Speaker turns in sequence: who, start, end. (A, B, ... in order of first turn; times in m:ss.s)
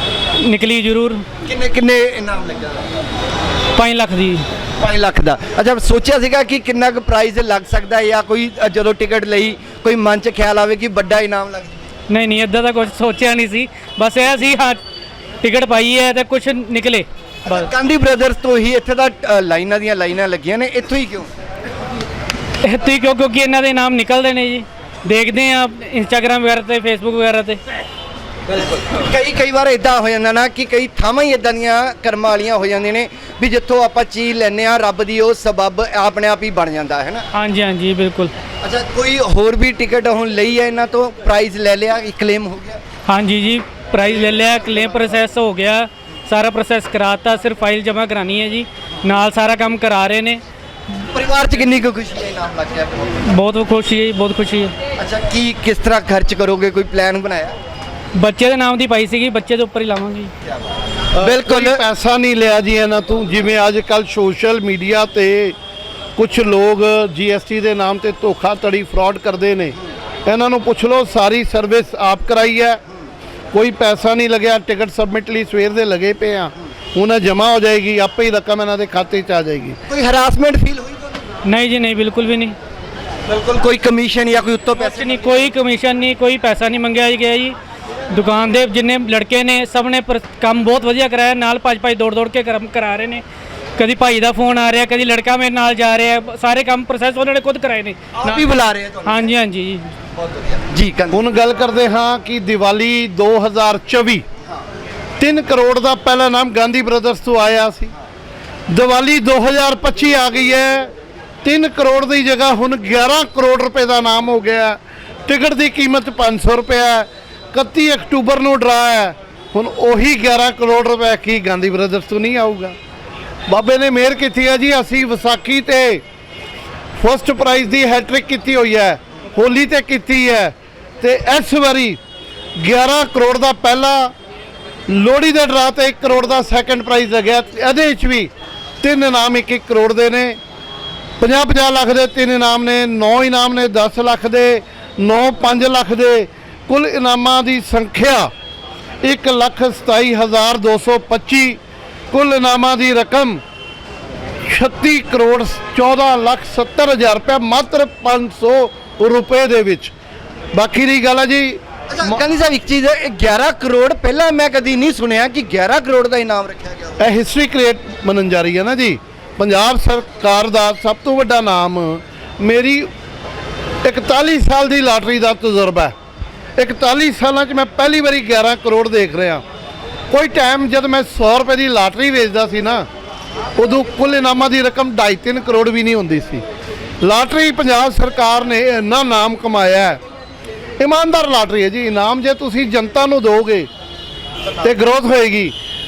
0:00.4-0:01.2 A
0:01.4-0:02.9 B
0:03.7-0:04.4 A
0:04.8-0:11.8 B
0:12.1-0:14.8 A
0:15.4-0:17.7 A
0:17.4-0:21.3 B
0:22.6-0:27.6 A
0:28.5-0:37.2 B
0:37.3-0:38.3 A
0:38.6-0:42.8 B
0:43.1-0:50.4 A
0:50.9-0:53.2 B
0:53.2-0:54.7 A
0:55.0-0:57.5 B
0:58.2-1:00.3 A
1:01.2-1:05.5 C
1:01.2-1:01.8 B
1:06.2-1:12.8 C
1:13.5-1:19.8 C
1:19.9-1:21.1 B
1:21.4-1:22.6 A
1:23.3-1:25.5 B
1:24.8-1:27.6 A
1:28.1-1:33.2 A
1:33.8-1:38.5 A
1:38.2-1:39.3 B
1:39.0-1:39.9 A
1:40.2-1:41.2 B
1:41.1-1:44.2 C
1:45.2-1:47.9 C
1:48.7-1:50.9 C
1:51.4-2:02.7 C
2:03.5-2:06.0 C
2:07.0-2:12.0 C
2:12.6-2:14.1 C
2:14.9-2:18.3 C
2:18.8-2:20.4 C
2:21.2-2:28.3 C
2:29.0-2:31.6 C
2:32.1-2:33.4 C
2:34.4-2:39.9 C
2:40.5-2:42.2 C
2:41.9-2:47.0 B
2:47.0-2:52.9 C
2:53.8-2:55.9 C
2:56.6-2:59.4 C
3:00.1-3:02.8 C
3:03.6-3:06.4 C
3:07.0-3:10.0 C
3:10.8-3:13.7 C
3:14.6-3:15.5 C